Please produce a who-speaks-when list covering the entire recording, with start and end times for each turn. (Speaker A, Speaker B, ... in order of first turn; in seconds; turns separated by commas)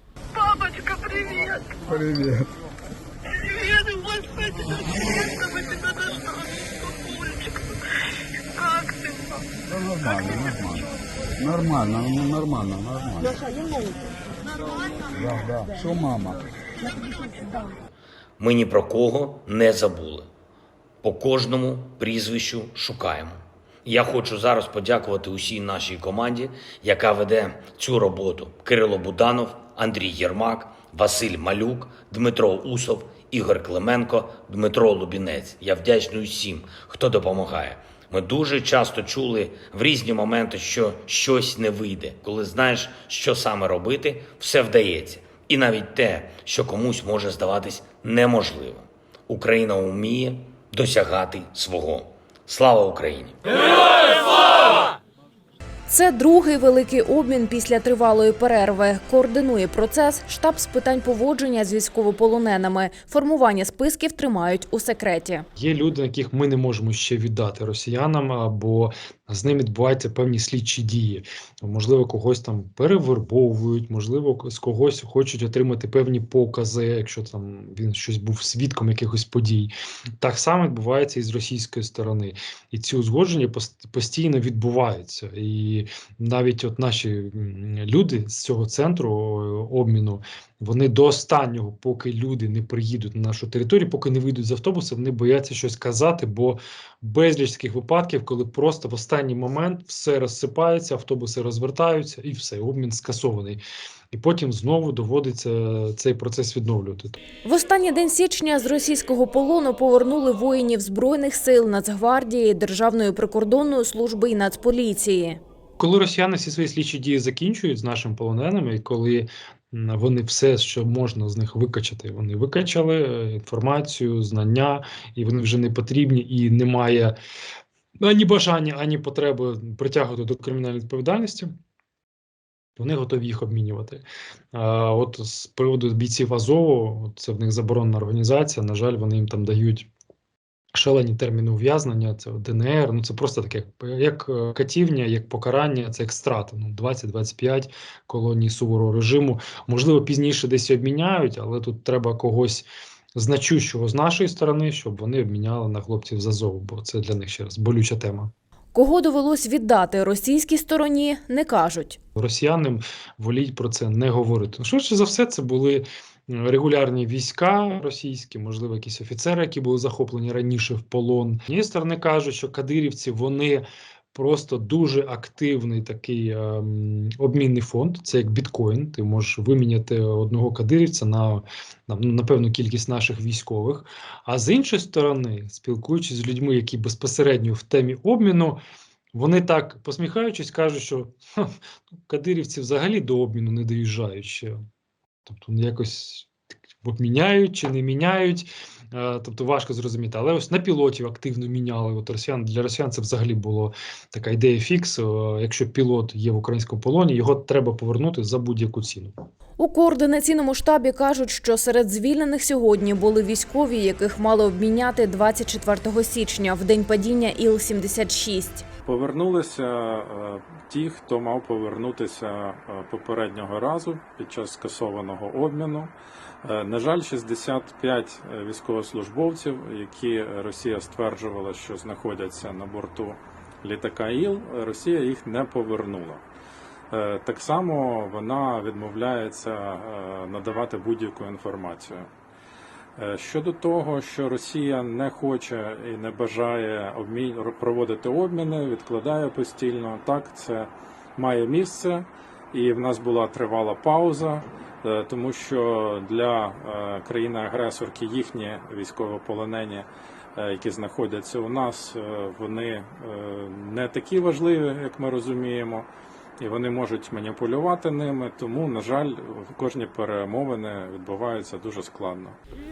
Speaker A: 0.7-1.5, Speaker B: 1.9-2.5, Speaker A: 3.7-4.4, Speaker A: 5.2-6.2, Speaker B: 9.7-13.5, Speaker B: 15.1-16.4, Speaker C: 18.4-20.3, Speaker C: 21.0-53.4, Speaker D: 55.9-65.5, Speaker E: 65.6-103.6, Speaker E: 104.1-107.2, Speaker D: 107.5-115.4, Speaker E: 115.8-127.2, Speaker E: 128.0-131.5, Speaker E: 132.8-139.9, Speaker E: 140.8-158.3, Speaker D: 158.7-162.0, Speaker E: 162.2-188.6, Speaker E: 189.1-191.5, Speaker E: 192.1-194.6, Speaker E: 195.3-196.3, Speaker E: 196.8-209.1, Speaker D: 209.6-218.7, Speaker F: 218.8-236.2, Speaker F: 236.9-242.1, Speaker F: 243.0-265.9, Speaker F: 266.4-272.4